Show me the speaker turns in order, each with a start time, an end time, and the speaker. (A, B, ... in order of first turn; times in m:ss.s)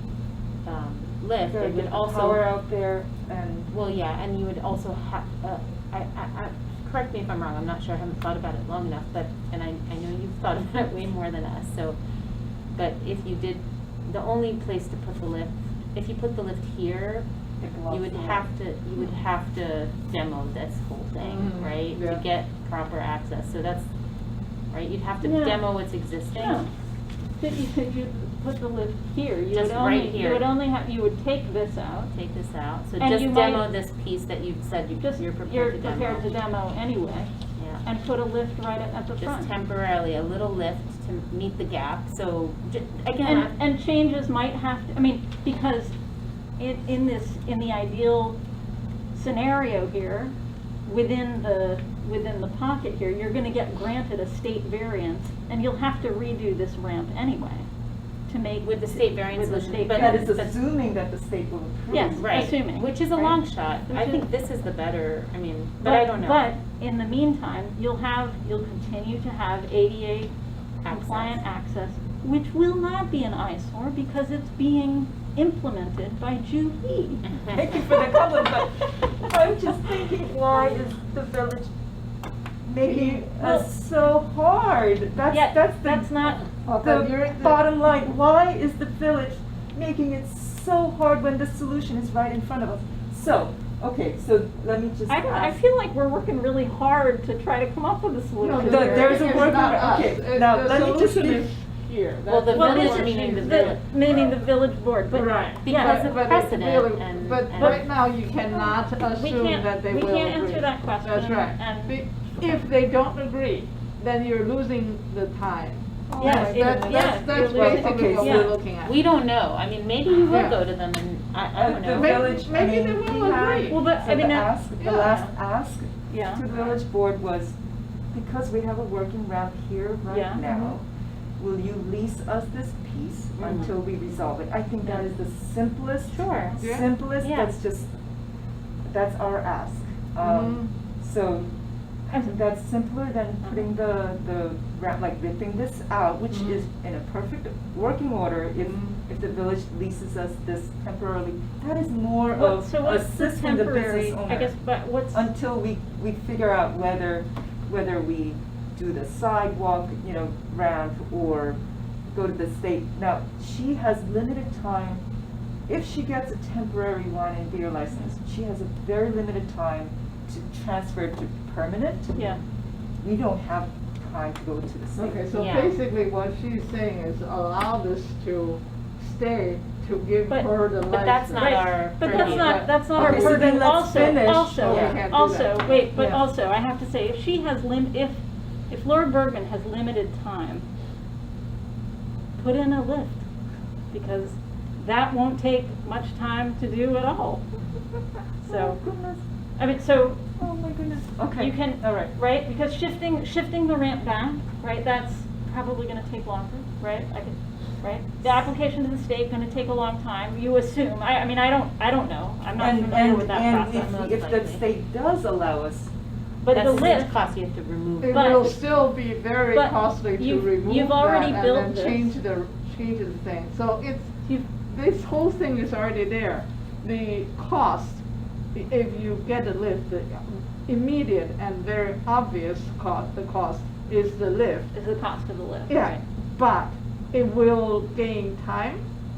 0:00.6-0:02.4 A
0:01.5-0:03.7 B
0:03.7-0:12.0 A
0:12.7-0:17.2 A
0:17.6-0:18.5 B
0:17.9-0:23.9 A
0:21.2-0:22.2 C
0:24.7-0:26.6 A
0:25.2-0:25.6 D
0:26.3-0:26.7 D
0:27.4-0:32.1 D
0:29.5-0:30.5 A
0:32.1-0:36.3 A
0:33.0-0:33.7 D
0:35.0-0:37.3 D
0:37.6-0:37.8 A
0:37.8-0:39.5 D
0:39.2-0:43.5 A
0:43.2-0:45.9 D
0:46.6-0:48.4 D
0:49.1-0:50.3 D
0:50.8-0:57.7 D
0:58.3-1:00.3 D
0:58.6-1:00.6 A
0:59.9-1:02.2 B
1:01.9-1:04.2 D
1:02.1-1:06.4 A
1:05.8-1:10.3 D
1:10.8-1:11.4 A
1:10.9-1:17.2 D
1:17.2-1:17.6 A
1:17.5-1:21.7 B
1:22.6-1:35.6 B
1:22.8-1:23.3 C
1:23.4-1:23.7 D
1:25.3-1:26.5 D
1:26.6-1:27.6 C
1:35.1-1:39.6 D
1:38.4-1:44.3 C
1:38.6-1:41.5 B
1:42.3-1:43.8 A
1:42.5-1:46.1 D
1:45.1-1:59.0 C
1:45.6-1:47.9 A
1:48.3-1:52.0 D
1:56.1-1:58.5 B
1:56.2-1:58.5 D
1:58.8-2:02.2 A
2:00.3-2:00.6 C
2:01.6-2:07.5 B
2:01.9-2:03.8 C
2:03.7-2:05.3 D
2:04.8-2:05.2 C
2:06.1-2:06.4 D
2:08.1-2:10.8 B
2:10.1-2:10.4 D
2:10.5-2:10.8 C
2:11.4-2:17.9 B
2:13.4-2:13.7 A
2:16.1-2:16.5 A
2:16.6-2:16.9 C
2:17.2-2:17.5 A
2:18.9-2:21.5 B
2:20.2-2:20.7 C
2:22.1-2:34.5 B
2:26.3-2:26.6 C
2:28.6-2:29.0 C
2:32.3-2:35.3 D
2:35.1-2:41.6 B
2:42.1-2:45.0 B
2:45.7-2:52.3 B
2:52.2-2:52.4 D
2:53.0-2:55.2 B
2:55.0-3:05.8 C
2:55.3-2:55.8 A
3:00.8-3:02.6 A
3:01.3-3:10.6 D
3:02.9-3:05.0 B
3:04.6-3:05.0 A
3:05.9-3:06.2 B
3:12.4-3:13.2 D
3:13.9-3:17.5 D
3:18.4-3:18.8 D
3:18.4-3:19.2 B
3:19.6-3:20.2 D
3:20.4-3:22.1 B
3:21.4-3:33.9 D
3:32.6-3:35.9 B
3:33.6-3:34.6 A
3:36.4-3:37.1 D
3:36.5-3:38.5 A
3:38.0-3:48.0 C
3:38.1-3:38.5 D
3:39.5-3:42.1 D
3:48.5-3:54.7 C
3:54.7-3:56.0 D
3:55.7-3:58.8 C